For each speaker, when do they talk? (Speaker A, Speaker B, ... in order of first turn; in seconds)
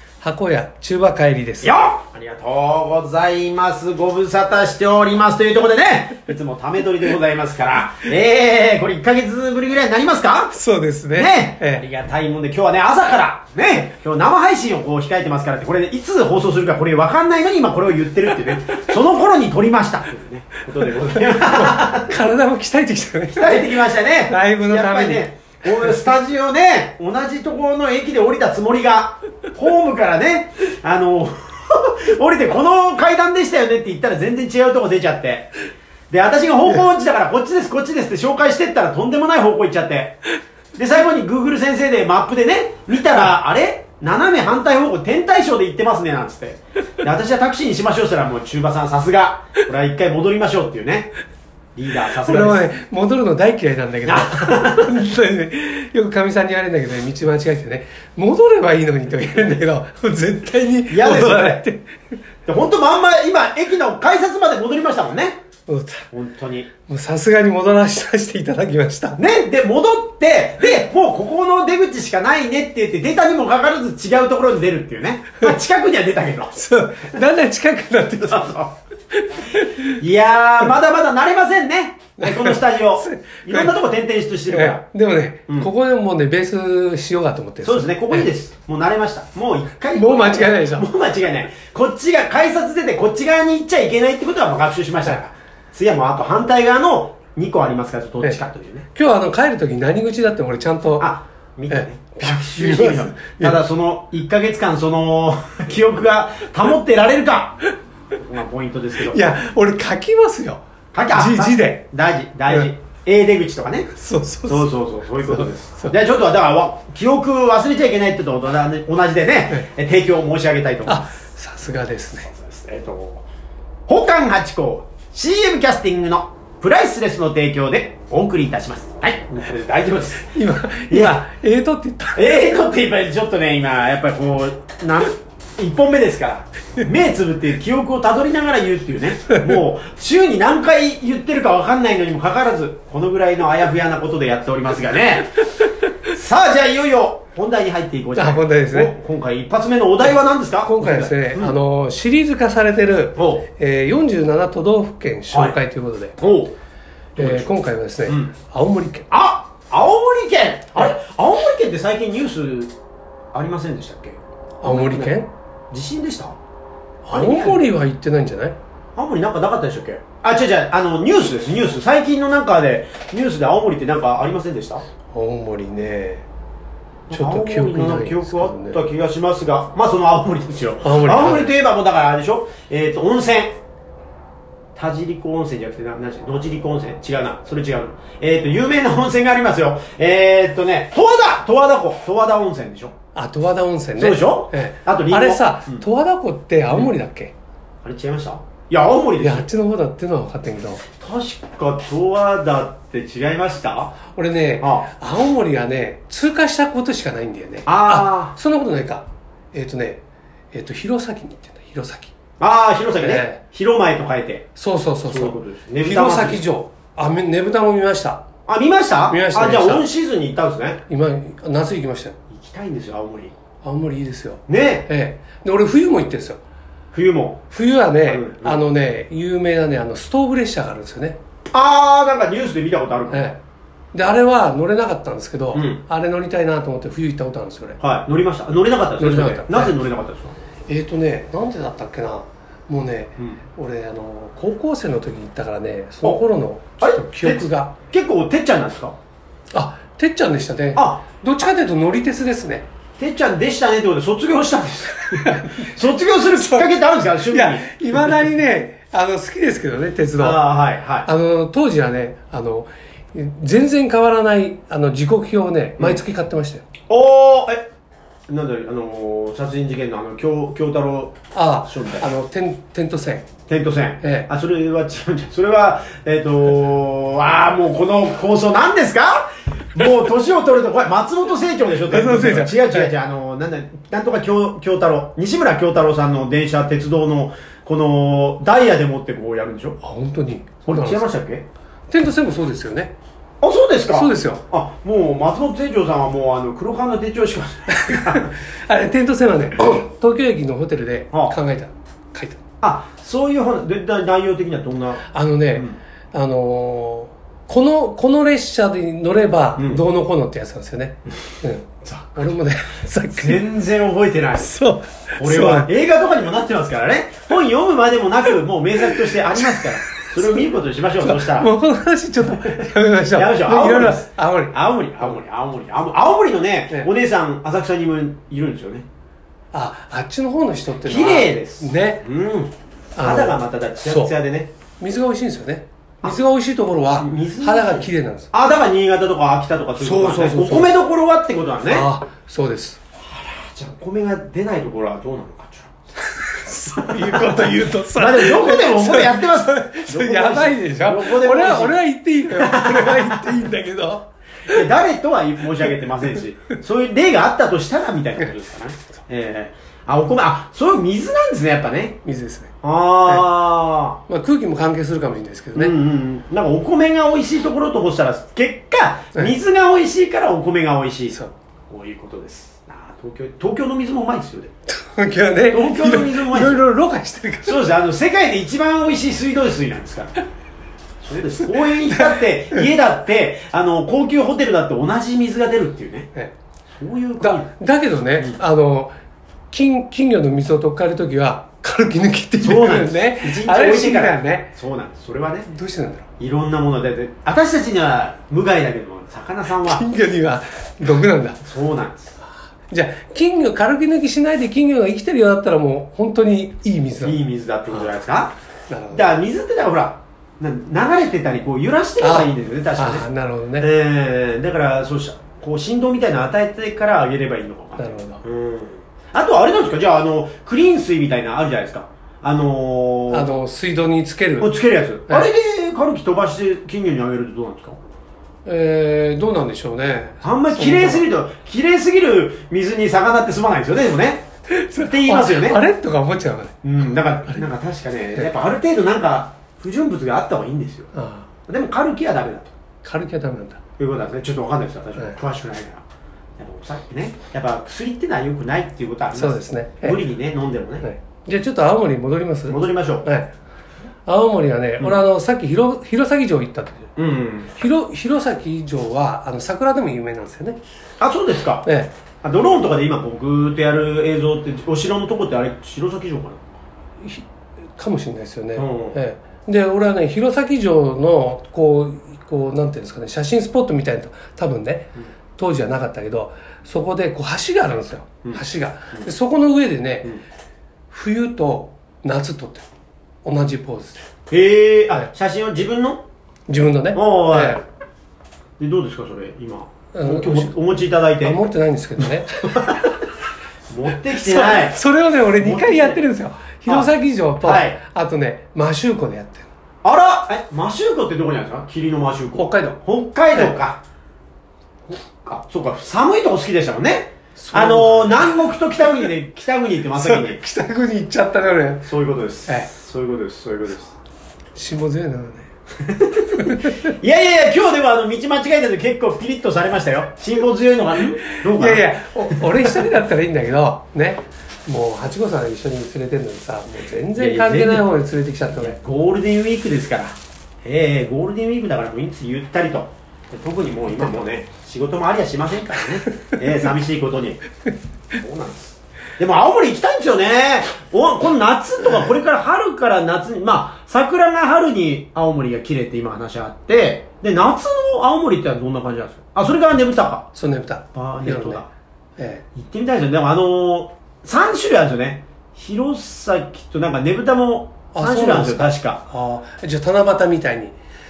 Speaker A: 0.2-1.7, 10.5-11.8, 21.2-23.8, 24.3-25.3, 52.2-61.9, 65.7-66.0, 66.9-69.2, 76.5-78.6, 79.2-80.0, 82.2-83.7, 84.5-88.3, 89.9-90.9, 98.9-101.1, 101.7-103.6, 109.1-111.8, 113.9-114.7, 115.2-115.9, 120.8-122.3, 130.3-132.5, 148.2-148.9, 150.6-156.2, 157.2-159.1, 164.6-165.3, 167.0-168.6, 175.1-176.2, 177.1-178.8, 180.8-181.5, 193.1-197.3, 199.2-200.8, 204.1-210.0, 210.5-212.1, 213.0-213.4, 214.6-218.2, 219.1-219.8, 220.9-222.1, 223.6-226.4, 227.5-231.2, 233.1-233.4, 233.9-237.8, 239.0-239.7, 240.7-247.7, 249.5-252.7, 255.2-255.6, 256.3-256.7, 257.3-260.4, 261.1-266.6, 271.3-273.2, 274.0-274.3, 281.9-282.9, 289.8-291.0, 291.9-292.9, 293.9-294.4, 297.8-302.4, 305.1-313.4, 314.4-315.7, 321.0-325.1, 329.5-332.0, 332.9-334.1, 334.8-338.3, 339.8-340.8, 341.7-342.8, 346.2-354.6, 362.0-362.5, 364.1-365.8, 374.7-377.7, 381.9-382.7, 387.2-388.9, 389.5-394.5, 395.5-396.0, 399.6-401.4, 402.7-407.2, 408.7-409.1, 412.0-413.7, 417.8-418.2, 423.1-424.5, 428.4-431.0, 434.5-436.6, 440.9-441.3, 442.8-443.6, 449.1-450.0, 450.8-453.3, 454.1-456.9, 457.6-460.6, 461.6-461.9, 467.8-480.2, 480.9-482.6, 483.2-484.0, 486.5-487.6, 489.9-490.5, 491.2-492.9, 494.1-499.4, 502.4-502.8, 507.4-508.4, 509.9-511.9, 514.5-515.5, 516.4-516.9, 521.5-528.7, 550.3-551.6, 552.2-552.4, 557.9-560.7
Speaker B: 1.6-10.6, 11.2-22.1, 23.3-35.5, 36.1-40.2, 40.8-51.1, 51.8-52.7, 54.0-54.9, 60.9-61.6, 62.5-65.4, 66.1-66.7, 69.2-76.6, 78.3-78.7, 80.0-84.8, 87.6-98.9, 101.0-107.6, 108.1-109.2, 110.9-113.9, 114.5-121.0, 122.3-123.2, 123.9-130.3, 130.9-131.2, 132.2-145.3, 146.1-151.6, 153.2-153.4, 156.2-156.5, 157.2-157.5, 158.1-158.3, 159.1-162.7, 163.3-165.2, 165.7-166.4, 167.1-167.7, 168.9-174.8, 177.1-183.5, 184.7-192.9, 194.0-195.8, 197.8-199.5, 201.0-204.0, 204.6-204.9, 207.7-208.3, 212.4-214.4, 215.0-216.4, 218.4-220.8, 222.3-223.3, 224.5-224.9, 226.9-227.4, 228.0-228.6, 231.5-233.3, 235.5-235.8, 237.8-240.4, 246.8-248.9, 250.7-251.0, 253.0-258.2, 260.2-261.1, 266.9-267.7, 268.3-272.1, 273.5-289.8, 290.6-291.4, 293.4-298.3, 302.6-305.0, 309.6-309.8, 311.8-312.2, 313.1-314.5, 315.2-321.5, 323.1-328.9, 330.8-334.5, 337.0-341.9, 343.0-345.8, 346.7-347.3, 347.9-353.3, 354.5-362.0, 362.6-364.0, 365.5-371.2, 371.7-374.5, 375.5-376.6, 377.4-380.1, 381.0-386.1, 386.7-387.5, 392.4-395.5, 396.2-399.9, 401.4-402.1, 407.0-408.3, 408.9-413.0, 413.6-423.3, 424.4-427.8, 430.2-434.2, 434.8-435.6, 436.6-440.9, 441.5-442.5, 443.8-445.8, 446.4-450.9, 452.5-453.1, 457.0-457.5, 461.0-461.7, 462.2-466.6, 468.6-469.0, 484.3-486.0, 486.9-487.6, 488.6-491.4, 492.0-492.8, 493.7-494.8, 495.4-496.0, 497.4-497.8, 499.8-503.8, 504.9-510.4, 511.8-513.9, 515.8-521.9, 527.1-527.9, 528.5-537.4, 538.1-550.3, 550.9-551.7, 552.5-559.0